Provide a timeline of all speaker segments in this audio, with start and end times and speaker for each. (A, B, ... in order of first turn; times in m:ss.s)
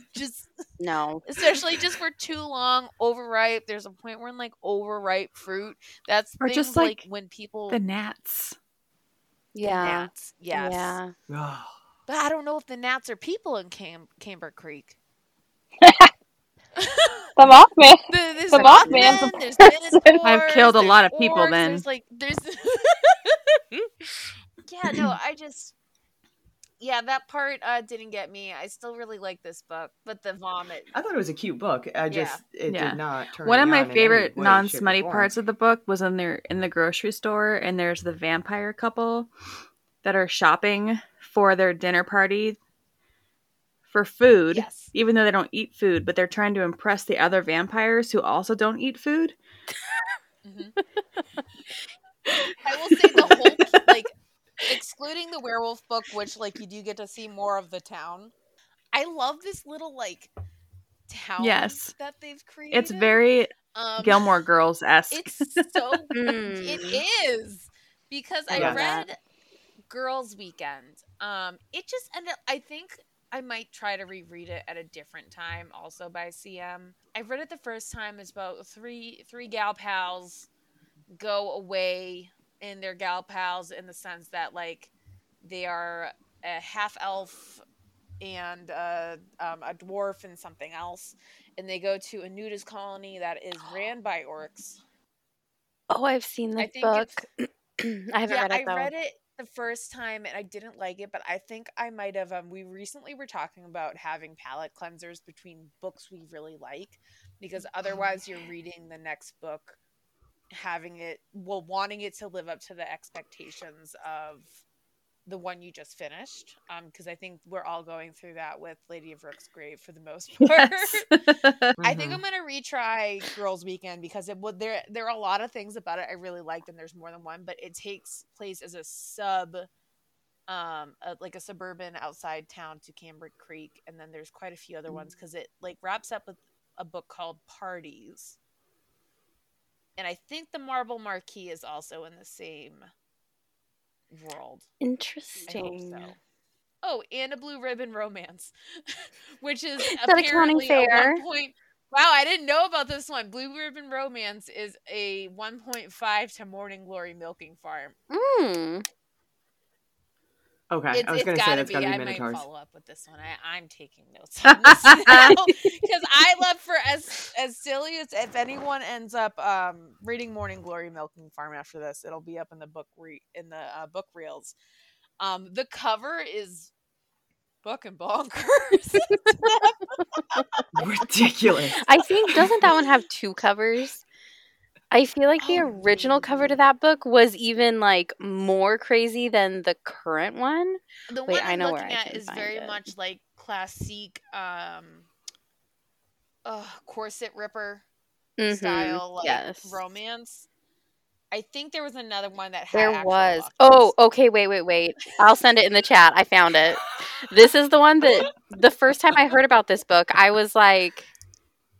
0:00.1-0:00.5 A
0:00.8-0:01.2 B
0:01.2-0:07.8 A
0:06.4-0:07.0 C
0:07.7-0:08.6 C
0:09.5-0:11.1 B
0:09.6-0:11.0 A
0:11.3-0:11.7 D
0:12.1-0:14.9 A
0:15.8-0:16.1 E
0:16.8-0:17.3 A
0:17.4-0:20.3 E
0:18.1-0:23.4 A
0:20.2-0:21.8 C
0:24.6-0:25.7 A
0:26.8-0:30.9 A
0:30.9-0:35.3 D
0:32.1-0:32.4 A
0:32.7-0:39.3 C
0:40.0-0:42.6 C
0:43.9-0:49.3 C
0:44.5-0:44.9 A
0:50.4-0:50.7 A
0:52.6-0:54.1 A
0:54.6-0:58.3 A
0:58.9-1:00.3 A
1:01.1-1:04.3 A
1:01.4-1:01.9 C
1:02.7-1:06.0 C
1:05.1-1:09.2 A
1:06.1-1:07.0 B
1:08.5-1:09.1 B
1:08.5-1:08.8 D
1:09.9-1:20.5 A
1:21.2-1:24.9 A
1:25.4-1:27.6 A
1:28.2-1:34.8 A
1:35.9-1:38.9 B
1:36.6-1:37.2 A
1:38.3-1:49.8 A
1:50.5-1:54.5 A
1:55.2-2:01.1 A
2:00.4-2:01.7 C
2:01.8-2:02.2 D
2:01.8-2:09.7 A
2:10.5-2:18.4 A
2:20.0-2:22.9 A
2:24.1-2:24.6 A
2:24.8-2:26.1 B
2:25.4-2:26.2 A
2:26.8-2:38.0 A
2:29.8-2:31.2 B
2:38.1-2:38.8 B
2:40.7-2:42.5 D
2:40.9-2:54.6 A
2:44.7-2:45.3 C
2:45.1-2:45.4 B
2:55.2-2:56.7 A
2:57.6-2:59.7 A
3:00.7-3:01.9 D
3:01.8-3:04.0 B
3:04.9-3:12.9 B
3:05.4-3:06.6 A
3:11.1-3:15.1 A
3:16.4-3:17.8 A
3:18.4-3:19.8 B
3:18.5-3:20.5 A
3:21.3-3:23.9 A
3:22.7-3:31.1 B